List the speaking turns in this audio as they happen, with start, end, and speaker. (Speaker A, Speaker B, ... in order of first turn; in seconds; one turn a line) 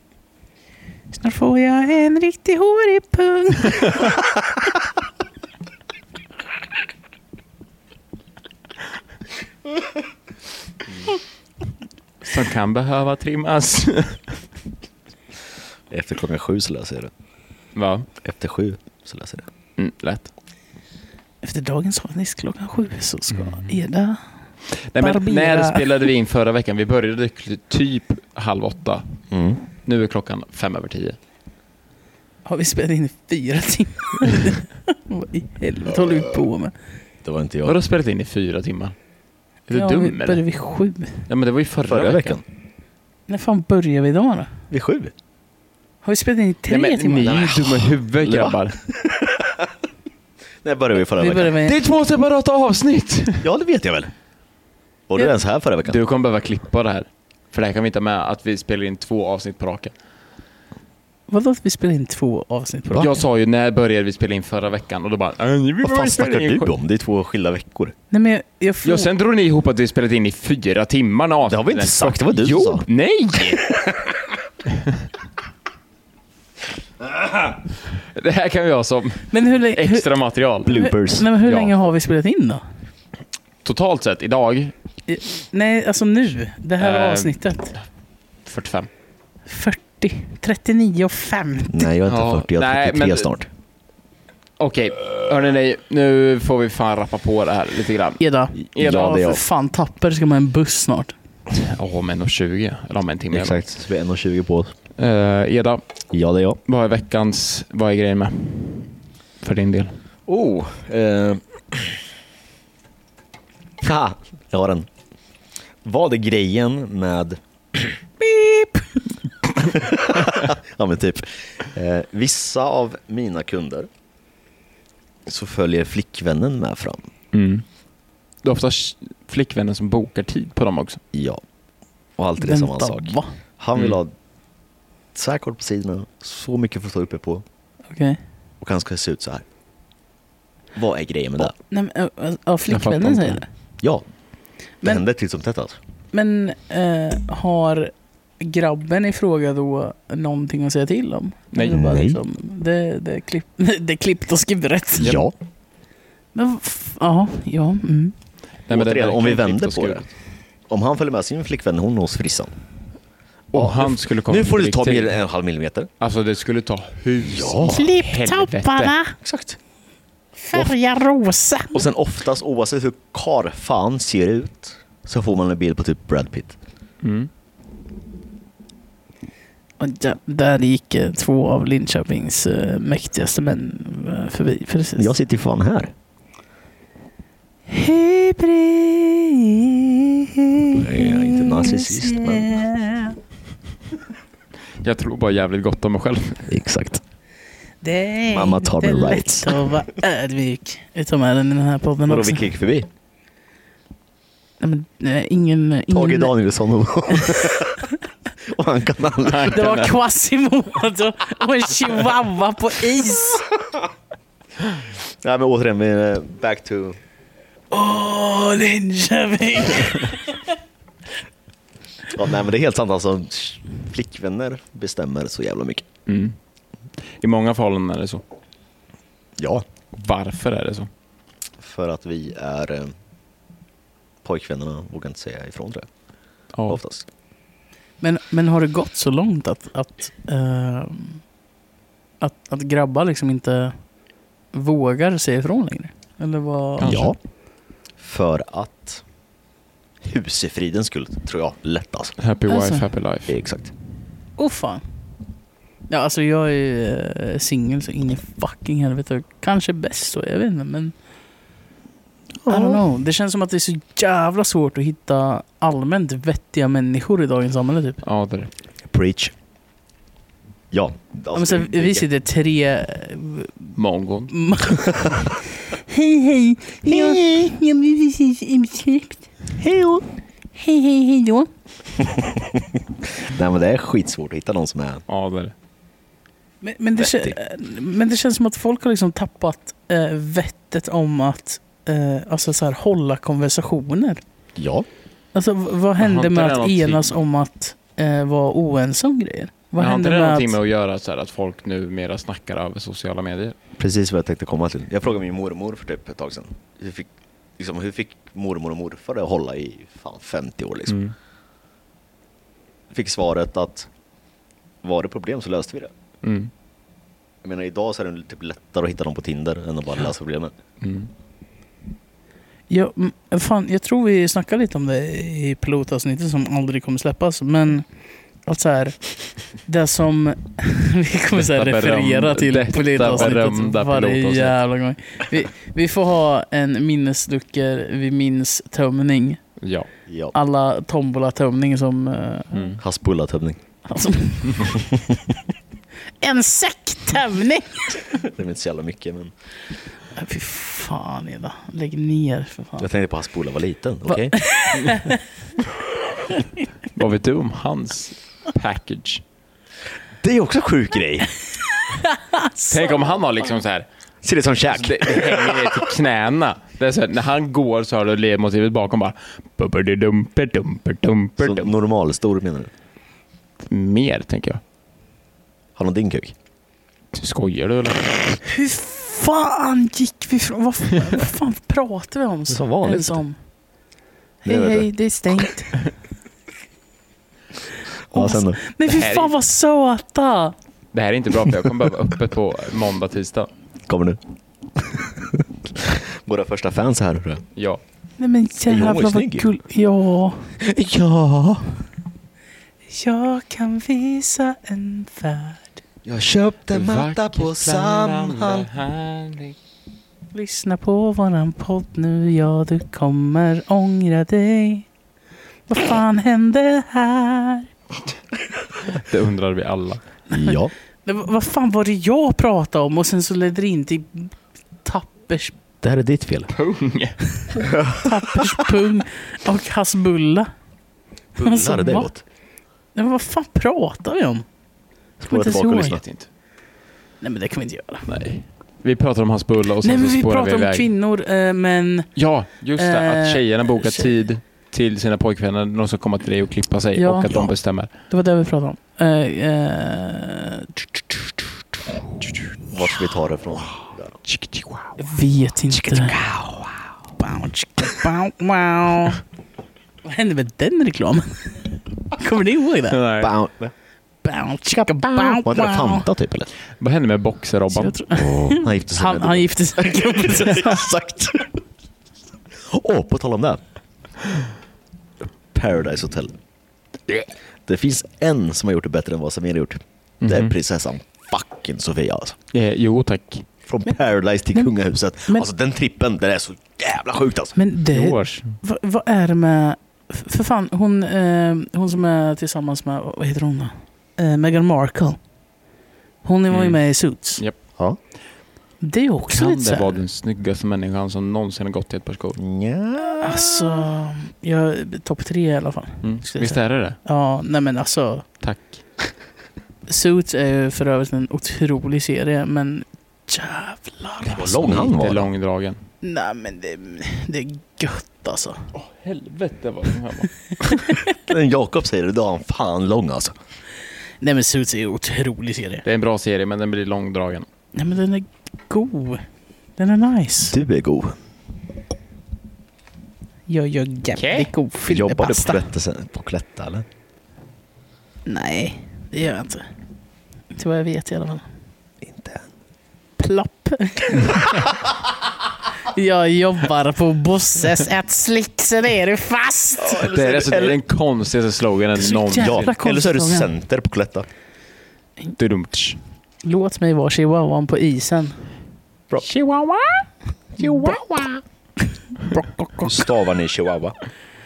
Speaker A: 1.1-4.1
Speaker B: 12.2-14.4
Speaker C: 15.9-17.1
Speaker B: 17.7-18.1
Speaker C: 18.2-19.5
Speaker B: 19.8-20.3
Speaker A: 21.4-24.2
Speaker B: 23.3-23.7
Speaker B: 24.9-29.0
Speaker A: 25.0-25.9
Speaker C: 29.3-29.6
Speaker B: 29.8-31.2
Speaker A: 32.5-36.7
Speaker C: 37.2-37.8
Speaker B: 37.6-38.9
Speaker B: 39.7-40.4
Speaker A: 39.7-41.2
Speaker B: 41.3-42.4
Speaker C: 41.8-42.4
Speaker A: 43.3-44.5
Speaker C: 44.7-45.1
Speaker A: 46.0-47.6
Speaker B: 46.7-48.8
Speaker C: 47.2-49.7
Speaker C: 50.6-51.7
Speaker A: 51.1-51.8
Speaker B: 51.6-53.5
Speaker C: 53.4-54.1
Speaker C: 55.1-56.0
Speaker B: 55.8-59.9
Speaker A: 61.3-63.2
Speaker B: 63.0-66.7
Speaker C: 65.8-67.9
Speaker A: 68.1-69.1
Speaker B: 68.8-73.8
Speaker C: 71.5-72.8
Speaker B: 77.3-80.9
Speaker A: 79.3-80.1
Speaker C: 80.6-81.3
Speaker A: 80.7-82.6
Speaker B: 81.4-81.7
Speaker B: 83.6-84.7
Speaker A: 85.1-87.7
Speaker B: 86.8-87.4
Speaker B: 88.5-88.9
Speaker A: 89.5-91.9
Speaker C: 91.7-93.5
Speaker B: 92.1-93.3
Speaker B: 94.6-99.2
Speaker A: 98.2-101.1
Speaker C: 98.8-99.4
Speaker B: 101.5-103.6
Speaker C: 103.3-104.7
Speaker B: 105.0-105.8
Speaker C: 106.1-106.6
Speaker B: 106.7-108.9
Speaker B: 109.4-110.0
Speaker C: 110.3-112.0
Speaker C: 113.8-114.9
Speaker C: 115.8-118.0
Speaker C: 119.6-123.9
Speaker C: 125.2-127.1
Speaker B: 127.3-127.6
Speaker B: 128.4-131.0
Speaker C: 131.1-131.4
Speaker C: 132.2-134.1
Speaker A: 132.4-133.3
Speaker B: 133.7-134.0
Speaker C: 135.1-137.4
Speaker A: 137.9-138.2
Speaker C: 138.6-139.4
Speaker C: 140.7-141.5
Speaker A: 141.7-143.4
Speaker B: 142.7-143.4
Speaker C: 144.8-145.8
Speaker A: 146.1-155.2
Speaker B: 151.5-151.8
Speaker C: 151.6-152.2
Speaker C: 155.0-155.3
Speaker B: 155.0-155.3
Speaker A: 156.3-158.1
Speaker B: 158.7-160.0
Speaker C: 158.7-160.1
Speaker C: 160.7-162.5
Speaker B: 163.5-165.2
Speaker C: 163.5-165.9
Speaker B: 166.0-168.9
Speaker C: 167.2-167.9
Speaker A: 167.6-169.2
Speaker C: 169.2-169.6
Speaker A: 170.4-171.8
Speaker C: 171.7-176.6
Speaker B: 177.0-177.3
Speaker A: 179.8-185.1
Speaker C: 185.0-185.9
Speaker A: 187.7-193.2
Speaker C: 190.7-192.5
Speaker B: 194.8-196.5
Speaker C: 196.5-197.0
Speaker A: 197.8-202.5
Speaker C: 198.3-199.8
Speaker C: 202.1-202.9
Speaker A: 204.6-206.3
Speaker C: 205.9-207.9
Speaker A: 207.1-207.8
Speaker C: 208.5-209.7
Speaker B: 209.2-209.9
Speaker A: 209.5-213.5
Speaker C: 215.2-217.0
Speaker A: 217.7-220.5
Speaker C: 222.1-225.8
Speaker B: 226.1-226.3
Speaker B: 227.2-228.2
Speaker C: 229.4-229.7
Speaker B: 229.9-230.9
Speaker C: 231.6-232.9
Speaker C: 234.2-235.9
Speaker B: 236.5-236.8
Speaker C: 236.7-237.1
Speaker A: 238.0-241.2
Speaker A: 242.2-243.8
Speaker A: 244.5-247.0
Speaker B: 246.8-247.1
Speaker C: 246.8-247.2
Speaker C: 248.0-249.0
Speaker C: 250.0-252.1
Speaker B: 252.2-253.3
Speaker A: 252.5-252.9
Speaker C: 253.2-253.7
Speaker A: 254.4-254.8
Speaker A: 255.9-260.9
Speaker C: 262.4-262.8
Speaker A: 262.5-268.0
Speaker B: 268.0-268.5
Speaker C: 268.9-269.3
Speaker C: 270.7-272.1
Speaker A: 271.3-273.7
Speaker B: 273.8-274.3
Speaker A: 274.3-279.3
Speaker C: 276.9-277.5
Speaker C: 279.6-280.0
Speaker A: 280.5-281.5
Speaker C: 282.0-285.0
Speaker B: 285.1-285.5
Speaker A: 286.6-294.2
Speaker C: 287.0-287.4
Speaker C: 294.6-294.9
Speaker A: 295.3-300.6
Speaker B: 296.0-297.1
Speaker B: 299.8-303.6
Speaker C: 303.8-311.0
Speaker B: 310.9-311.1
Speaker C: 312.9-313.9
Speaker C: 314.8-315.9
Speaker B: 316.2-316.5
Speaker C: 317.4-320.5
Speaker B: 320.8-321.1
Speaker A: 322.7-327.9
Speaker A: 328.4-329.0
Speaker A: 329.6-339.4
Speaker B: 331.4-334.6
Speaker B: 339.6-339.9
Speaker C: 340.1-340.3
Speaker A: 340.3-342.7
Speaker B: 342.5-342.8
Speaker C: 342.8-343.6
Speaker A: 343.9-344.8
Speaker C: 344.7-345.1
Speaker A: 346.2-348.1
Speaker C: 348.1-349.3
Speaker A: 350.1-352.9
Speaker C: 352.8-354.4
Speaker A: 354.1-355.2
Speaker B: 356.9-359.2
Speaker C: 360.2-361.3
Speaker A: 361.7-363.1
Speaker B: 362.7-363.9
Speaker C: 364.2-365.9
Speaker B: 364.7-371.7
Speaker C: 371.4-372.7
Speaker B: 373.6-374.6
Speaker C: 375.8-376.3
Speaker B: 377.1-378.4
Speaker A: 378.4-383.4
Speaker C: 382.5-383.2
Speaker A: 384.4-385.8
Speaker C: 384.4-384.9
Speaker C: 388.1-388.6
Speaker A: 388.1-390.5
Speaker B: 388.8-389.3
Speaker B: 390.9-393.5
Speaker C: 393.9-394.2
Speaker C: 394.8-397.4
Speaker B: 397.6-397.8
Speaker A: 398.2-400.5
Speaker C: 398.7-399.5
Speaker C: 400.6-401.8
Speaker A: 402.9-405.8
Speaker C: 406.0-408.7
Speaker B: 406.7-409.6
Speaker A: 410.3-414.9
Speaker A: 415.7-417.7
Speaker B: 418.9-420.0
Speaker C: 420.3-420.7
Speaker A: 420.3-425.5
Speaker C: 425.8-426.5
Speaker B: 426.5-427.2
Speaker A: 427.4-430.5
Speaker C: 427.6-428.4
Speaker C: 431.4-432.2
Speaker A: 431.4-432.1
Speaker A: 432.9-434.4
Speaker C: 435.2-436.0
Speaker A: 435.3-436.0
Speaker B: 435.8-436.3
Speaker A: 437.2-438.1
Speaker B: 438.1-440.9
Speaker A: 439.8-442.1
Speaker B: 442.1-447.9
Speaker A: 442.8-444.1
Speaker A: 446.9-450.7
Speaker C: 452.7-454.1
Speaker B: 454.2-454.9
Speaker A: 455.0-456.1
Speaker C: 455.8-456.7
Speaker A: 457.2-459.2
Speaker A: 460.0-463.0
Speaker B: 462.9-463.3
Speaker C: 463.2-463.7
Speaker A: 464.2-466.1
Speaker C: 465.1-466.5
Speaker B: 466.8-468.0
Speaker A: 467.7-470.9
Speaker C: 468.1-471.6
Speaker C: 472.6-473.6
Speaker C: 475.5-476.4
Speaker C: 477.6-482.4
Speaker B: 480.2-480.5
Speaker B: 482.5-483.4
Speaker C: 483.6-487.6
Speaker A: 487.6-495.2
Speaker B: 487.9-488.6
Speaker A: 496.2-497.4
Speaker B: 496.5-497.6
Speaker A: 498.8-500.0
Speaker B: 499.3-502.4
Speaker C: 502.4-503.8
Speaker A: 503.2-508.2
Speaker B: 506.0-507.0
Speaker B: 508.4-508.8
Speaker A: 509.9-514.8
Speaker C: 514.3-515.3
Speaker B: 514.4-515.8
Speaker A: 516.0-518.7
Speaker B: 518.7-520.3
Speaker A: 520.6-521.1
Speaker C: 521.1-523.3
Speaker A: 524.2-525.8
Speaker B: 525.8-527.5
Speaker A: 527.7-529.2
Speaker A: 529.8-530.5
Speaker C: 530.5-531.2
Speaker A: 533.5-535.7
Speaker B: 534.1-534.5
Speaker C: 534.9-536.9
Speaker A: 538.2-539.6
Speaker A: 540.5-541.4
Speaker C: 542.0-542.4
Speaker A: 543.2-544.7
Speaker A: 545.8-550.0
Speaker C: 549.8-550.8
Speaker B: 550.0-552.7
Speaker A: 552.0-553.5
Speaker C: 552.4-554.3
Speaker B: 555.4-556.0
Speaker A: 556.4-558.4
Speaker B: 559.2-560.0
Speaker C: 560.6-561.4
Speaker B: 560.6-561.2
Speaker A: 562.1-563.0
Speaker C: 562.8-564.0